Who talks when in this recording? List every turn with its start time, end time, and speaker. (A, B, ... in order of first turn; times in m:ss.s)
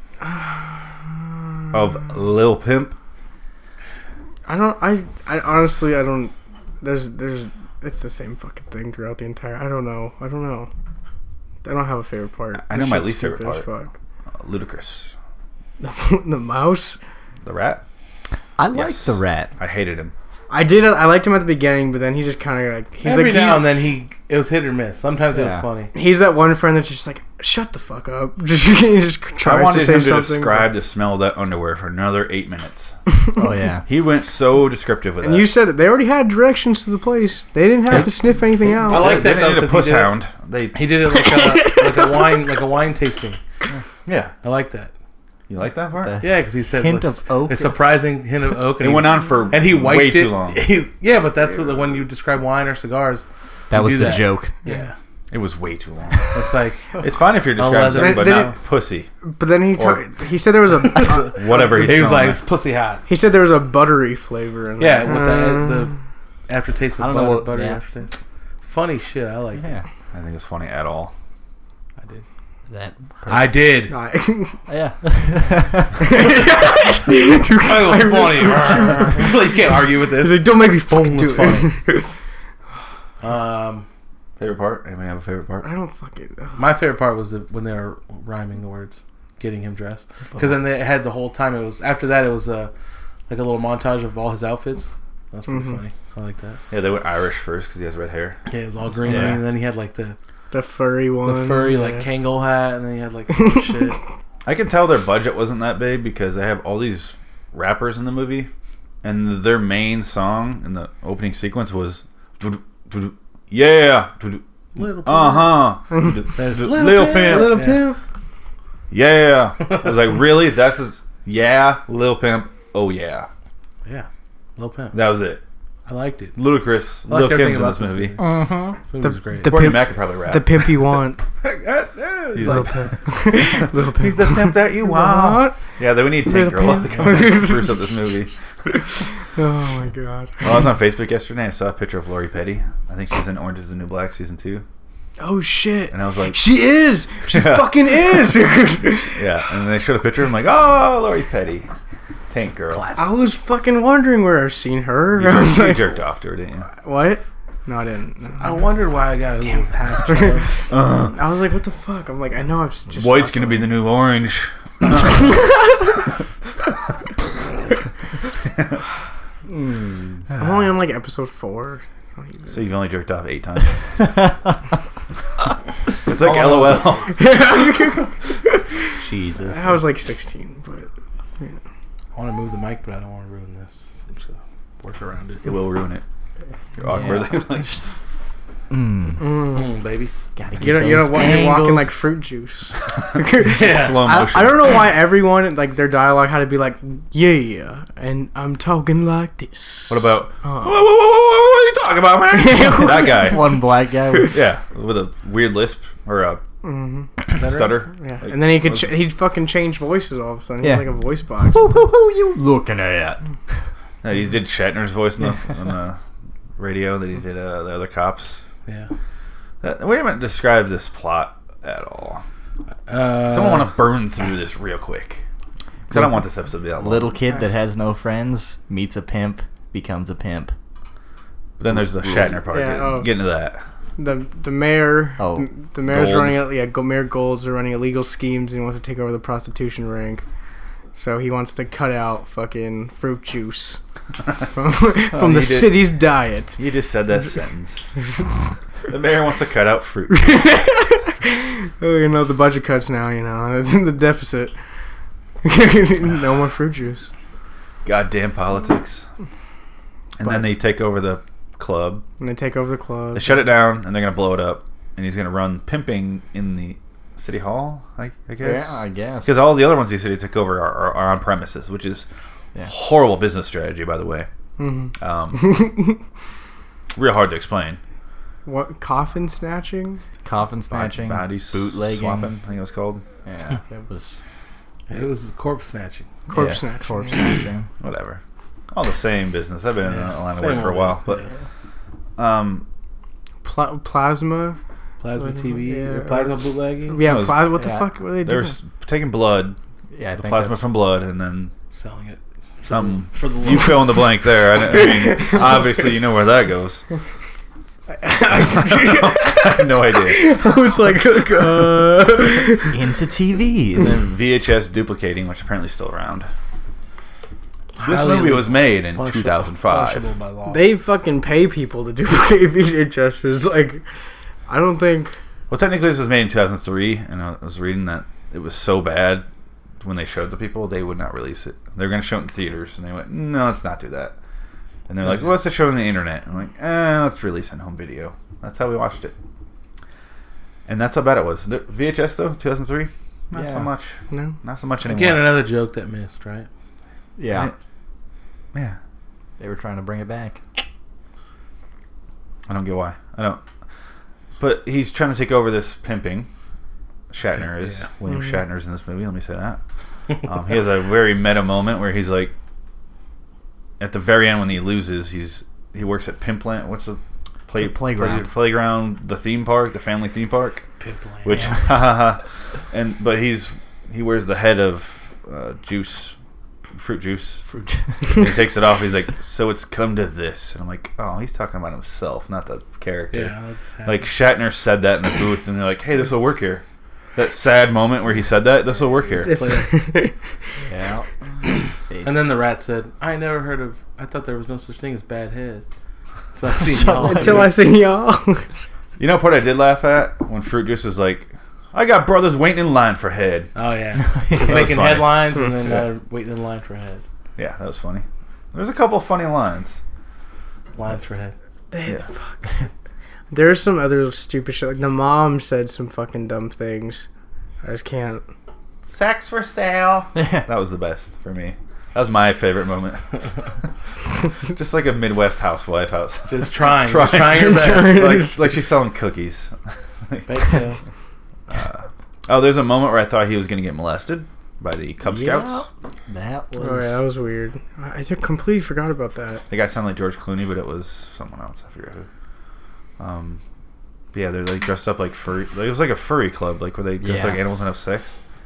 0:00.2-0:00.7 A
0:01.7-0:03.0 B
0:04.5-0:10.7 A
0:11.6-0:13.9 A
0:12.6-0:13.7 B
0:14.4-0:15.2 B
0:15.8-0:17.0 A
0:17.4-0:17.8 B
0:18.6-0:19.5 C
0:18.7-0:20.1 B
0:20.5-0:23.7 A
0:23.0-0:25.9 D
0:25.3-0:25.7 C
0:25.9-0:30.7 A
0:29.4-0:33.0 B
0:33.3-0:33.9 C
0:33.9-0:35.5 B
0:35.2-0:39.2 A
0:38.6-0:40.2 D
0:38.8-0:40.8 B
0:40.7-0:43.4 D
0:41.1-0:42.5 A
0:44.0-0:44.3 B
0:44.4-0:44.9 D
0:45.5-0:46.2 B
0:46.0-0:47.8 C
0:46.2-0:55.0 D
0:48.8-0:50.6 B
0:53.7-0:54.6 C
0:55.3-0:56.4 B
0:56.3-0:57.0 D
0:57.0-0:59.1 B
0:57.5-0:58.6 D
0:58.0-0:58.5 A
0:59.2-1:01.6 A
0:59.8-1:00.0 B
1:00.8-1:03.0 D
1:01.3-1:02.4 B
1:03.1-1:05.9 A
1:04.8-1:06.0 D
1:06.5-1:09.7 D
1:07.0-1:07.8 C
1:09.6-1:09.9 C
1:10.1-1:11.1 B
1:12.0-1:12.2 D
1:12.7-1:13.6 C
1:13.3-1:13.9 D
1:13.9-1:14.6 A
1:14.7-1:16.1 C
1:16.0-1:19.4 A
1:17.6-1:21.7 D
1:20.2-1:22.1 A
1:23.2-1:23.9 D
1:24.4-1:25.7 B
1:25.6-1:26.6 A
1:26.6-1:32.7 D
1:33.3-1:36.6 D
1:35.5-1:35.8 A
1:36.7-1:38.4 B
1:38.5-1:40.2 D
1:39.0-1:39.4 C
1:40.5-1:42.1 A
1:41.2-1:44.0 D
1:44.4-1:48.5 B
1:49.0-1:57.8 B
1:54.8-1:55.8 D
1:56.4-1:57.9 D
1:57.1-1:58.0 A
1:58.9-2:03.3 B
2:03.8-2:05.0 D
2:04.9-2:05.4 B
2:05.9-2:06.4 D
2:06.4-2:08.2 B
2:07.1-2:08.4 D
2:08.2-2:08.8 C
2:08.9-2:09.7 D
2:09.0-2:11.2 A
2:09.4-2:10.9 B
2:11.5-2:12.8 D
2:12.3-2:18.4 B
2:12.4-2:18.0 A
2:16.9-2:17.2 D
2:18.7-2:20.6 A
2:20.4-2:24.6 B
2:25.2-2:29.2 A
2:25.9-2:26.4 B
2:27.3-2:28.3 B
2:29.1-2:31.7 B
2:32.3-2:32.9 B
2:32.7-2:33.0 D
2:33.0-2:35.9 A
2:35.2-2:36.7 B
2:36.8-2:38.6 A
2:38.4-2:40.5 D
2:40.1-2:43.8 A
2:40.7-2:41.2 B
2:42.9-2:45.5 B
2:50.4-2:52.6 A
2:52.5-2:53.8 B
2:54.0-2:54.4 C
2:56.0-2:57.2 B
2:56.1-2:57.2 D
2:57.2-3:00.9 A
2:58.9-2:59.8 C
3:02.1-3:05.5 D
3:05.4-3:06.0 B
3:06.8-3:07.8 B
3:06.9-3:07.8 C
3:08.7-3:09.4 C
3:09.2-3:09.7 A
3:09.5-3:10.1 D
3:10.4-3:11.9 C
3:10.6-3:20.8 A
3:13.5-3:14.0 D
3:13.5-3:14.8 B
3:19.9-3:23.5 B
3:22.3-3:23.6 A
3:22.9-3:24.4 C
3:24.3-3:26.4 B
3:26.6-3:27.1 A
3:27.3-3:29.0 B
3:27.4-3:27.8 D
3:28.0-3:31.8 A
3:30.6-3:31.0 C
3:31.5-3:33.2 C
3:34.0-3:36.0 B
3:36.6-3:38.4 B
3:38.7-3:38.9 D
3:39.6-3:42.2 B
3:42.9-3:43.8 D
3:43.2-3:45.2 B
3:45.9-3:47.1 B
3:45.9-3:46.2 C
3:46.8-3:50.5 C
3:51.6-3:53.6 B
3:51.8-3:52.3 C
3:52.5-3:53.1 A
3:54.0-4:00.2 A
3:55.2-3:55.5 C
3:55.9-3:56.4 B
4:01.0-4:03.8 A
4:04.5-4:06.6 A
4:05.1-4:05.9 B
4:06.6-4:07.9 B
4:08.9-4:10.6 B
4:10.1-4:14.6 A
4:15.4-4:17.1 A
4:17.8-4:19.1 B
4:20.2-4:22.0 B
4:22.2-4:23.4 A
4:23.1-4:32.1 B
4:28.4-4:29.4 C
4:32.7-4:34.3 B
4:34.6-4:36.0 A
4:35.0-4:35.4 B
4:37.0-4:37.8 B
4:38.5-4:40.0 A
4:40.2-4:42.3 C
4:40.7-4:43.0 B
4:43.2-4:44.2 C
4:44.9-4:46.1 D
4:46.3-4:47.3 A
4:46.3-4:47.7 C
4:47.8-4:48.2 B
4:48.7-4:51.2 B
4:49.8-4:51.3 D
4:52.2-4:52.7 B
4:53.4-4:54.6 A
4:55.0-4:57.0 D
4:55.2-4:58.6 A
4:57.0-4:57.6 B
4:57.6-4:57.9 C
4:58.2-4:59.6 B
4:59.9-5:00.7 C
5:00.2-5:01.5 B
5:01.7-5:04.0 D
5:02.7-5:06.8 B
5:04.7-5:05.6 A
5:07.9-5:12.8 A
5:08.3-5:10.3 B
5:12.7-5:14.0 C
5:13.8-5:16.3 B
5:17.8-5:20.7 D
5:17.8-5:20.1 B
5:20.5-5:23.8 A
5:24.5-5:25.2 A
5:25.5-5:29.3 B
5:29.8-5:34.2 B
5:34.9-5:39.1 B
5:40.7-5:45.4 B
5:43.3-5:43.7 C
5:44.8-5:46.5 D
5:47.2-5:47.5 C
5:49.4-5:50.4 C
5:52.5-5:53.4 B
5:54.4-5:56.3 B
5:57.1-5:59.6 B
5:57.6-5:57.9 D
6:00.2-6:02.3 B
6:03.8-6:10.6 B
6:07.6-6:08.3 C
6:10.8-6:11.4 D
6:11.2-6:16.2 B
6:11.3-6:11.7 C
6:16.8-6:17.4 B
6:17.5-6:18.3 C
6:18.1-6:23.3 B
6:23.1-6:24.1 D
6:23.8-6:26.6 B
6:27.2-6:29.4 B
6:29.2-6:29.7 D
6:29.2-6:30.2 A
6:30.6-6:32.1 C
6:32.0-6:35.6 D
6:36.4-6:37.6 D
6:36.6-6:37.5 C
6:37.0-6:38.5 A
6:39.0-6:43.5 B
6:43.6-6:47.0 D
6:44.1-6:44.7 C
6:44.4-6:45.9 B
6:47.4-6:49.8 B
6:50.8-6:51.3 D
6:51.7-6:52.5 A
6:53.3-6:57.1 A
6:57.6-6:58.2 A
6:58.9-7:03.5 B
7:00.2-7:00.5 C
7:04.4-7:10.4 B
7:06.3-7:08.1 D
7:07.2-7:08.4 A
7:10.3-7:10.8 D
7:11.5-7:15.7 B
7:15.0-7:17.0 C
7:16.6-7:19.4 A
7:19.5-7:22.1 B
7:23.0-7:23.4 B
7:24.1-7:28.2 B
7:27.0-7:27.4 C